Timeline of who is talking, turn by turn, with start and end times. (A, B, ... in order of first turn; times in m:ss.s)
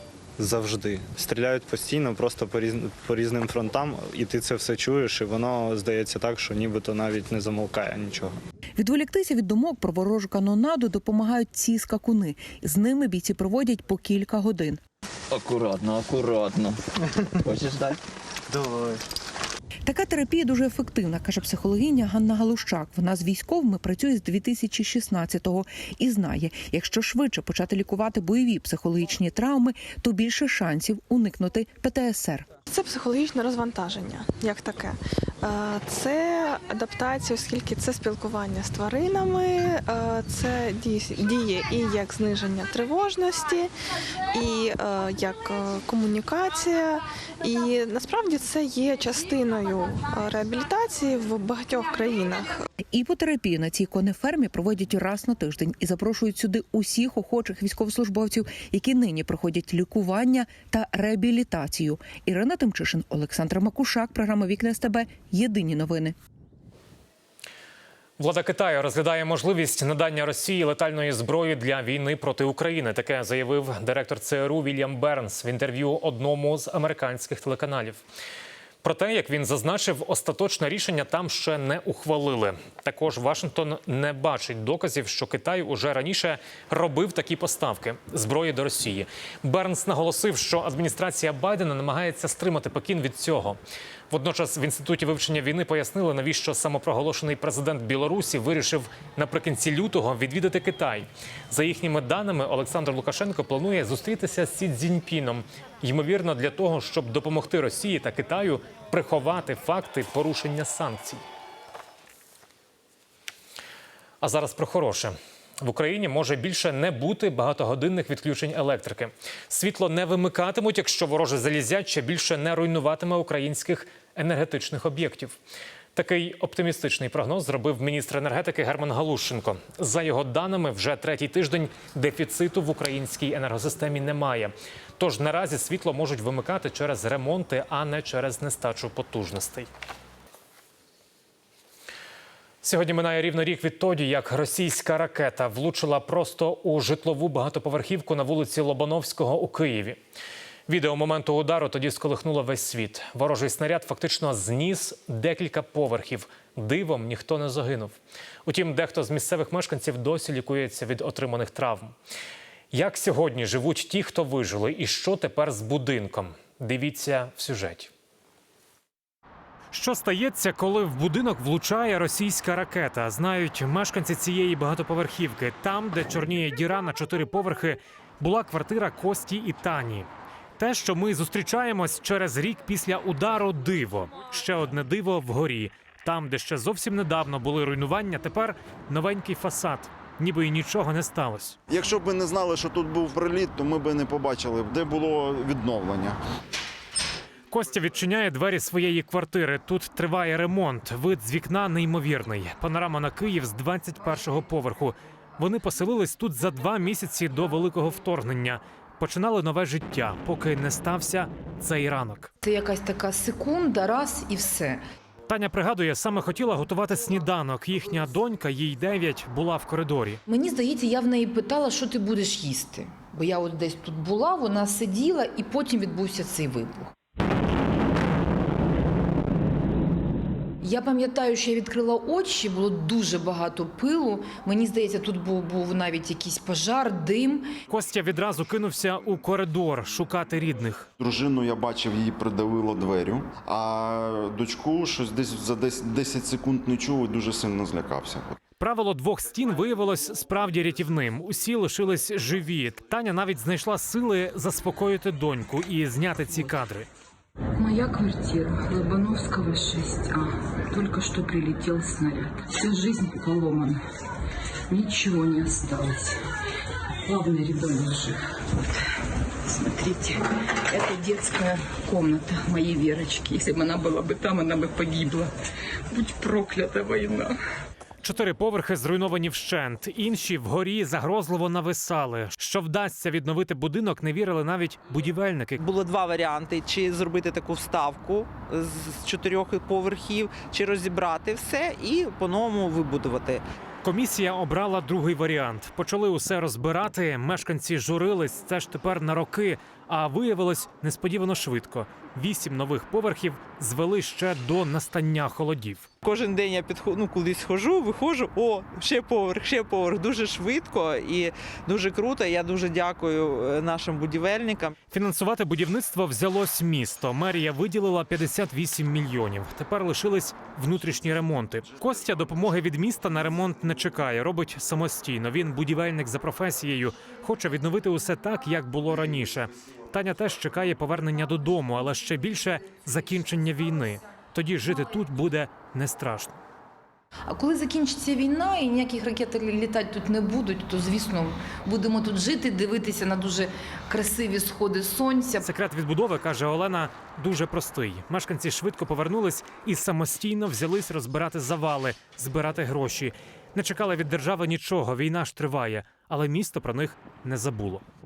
0:00.4-0:08.4 A
0:08.8-0:14.8 B
0:15.3-0:16.8 C
0:17.4-0:18.0 C
0:19.8-0:32.5 B
0:32.7-0:43.7 D
0:44.3-0:52.6 D
0:52.9-1:06.1 B
1:08.2-1:18.0 E
1:18.8-1:51.2 E
1:54.2-2:05.4 E
2:05.9-2:19.7 E
2:22.6-2:30.0 E
2:30.7-2:37.9 E
2:38.4-2:41.9 E
2:42.7-2:47.9 E
2:49.7-3:11.6 E
3:11.7-3:16.2 F
3:17.5-3:32.3 E
3:32.4-3:34.8 G
3:35.3-3:40.2 E
3:40.3-3:46.9 G
3:50.6-3:57.5 G
3:57.7-4:00.9 E
4:01.0-4:08.4 F
4:08.6-4:16.9 E
4:17.6-4:23.8 G
4:24.7-4:26.2 G
4:27.0-4:28.6 G
4:29.4-4:35.3 G
4:35.9-4:37.4 G
4:38.0-4:45.6 E
4:45.6-4:53.4 H
4:53.8-5:05.9 E
5:06.0-5:14.7 H
5:14.9-5:36.4 E
5:37.3-5:45.4 G
5:45.4-5:57.8 E